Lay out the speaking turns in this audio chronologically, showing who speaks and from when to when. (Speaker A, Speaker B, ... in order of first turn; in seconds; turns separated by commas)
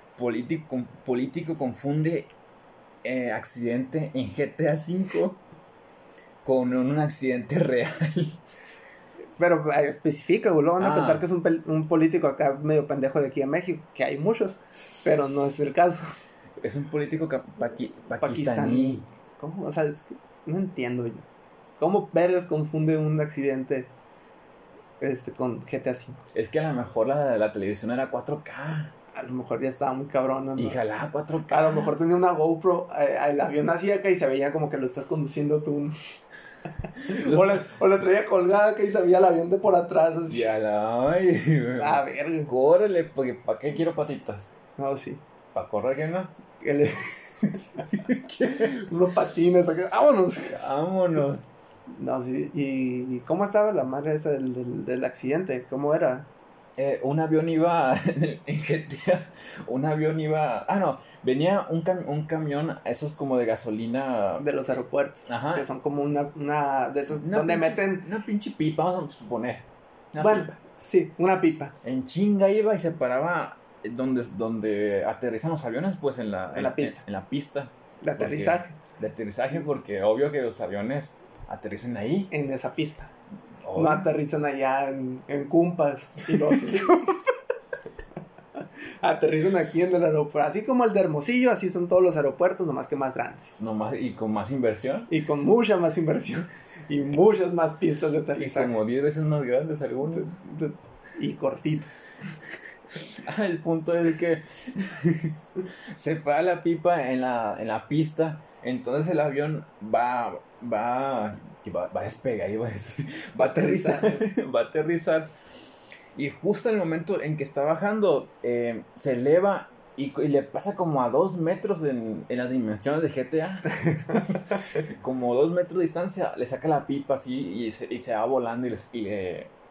Speaker A: 0.1-2.3, Speaker A: 3.0-5.4, Speaker A: 6.4-8.4, Speaker B: 9.4-16.1, Speaker A: 10.8-11.2, Speaker A: 16.6-19.0, Speaker B: 18.2-21.2, Speaker B: 21.8-23.9, Speaker B: 25.0-26.2, Speaker A: 26.3-28.9, Speaker B: 29.1-30.8, Speaker A: 30.6-31.9, Speaker B: 31.5-36.0, Speaker B: 36.8-40.5, Speaker A: 37.0-37.6, Speaker A: 40.3-44.5, Speaker B: 41.8-42.5, Speaker B: 44.8-45.2, Speaker A: 45.5-46.3, Speaker B: 46.6-50.6, Speaker A: 47.9-48.8, Speaker A: 50.5-51.4, Speaker B: 51.9-56.3, Speaker A: 56.8-64.5, Speaker B: 64.4-68.1, Speaker A: 65.3-65.7, Speaker A: 67.1-70.5, Speaker B: 70.2-71.7, Speaker A: 71.8-82.3, Speaker B: 76.5-77.0, Speaker B: 78.0-78.8, Speaker B: 82.3-83.1, Speaker A: 83.6-84.1, Speaker B: 83.7-87.2, Speaker A: 86.3-86.8, Speaker B: 89.0-93.5, Speaker A: 93.6-95.1, Speaker B: 95.1-98.7, Speaker A: 98.3-100.3, Speaker B: 100.1-101.9, Speaker A: 103.1-115.3, Speaker B: 113.4-114.3, Speaker A: 116.1-129.5, Speaker B: 124.1-124.3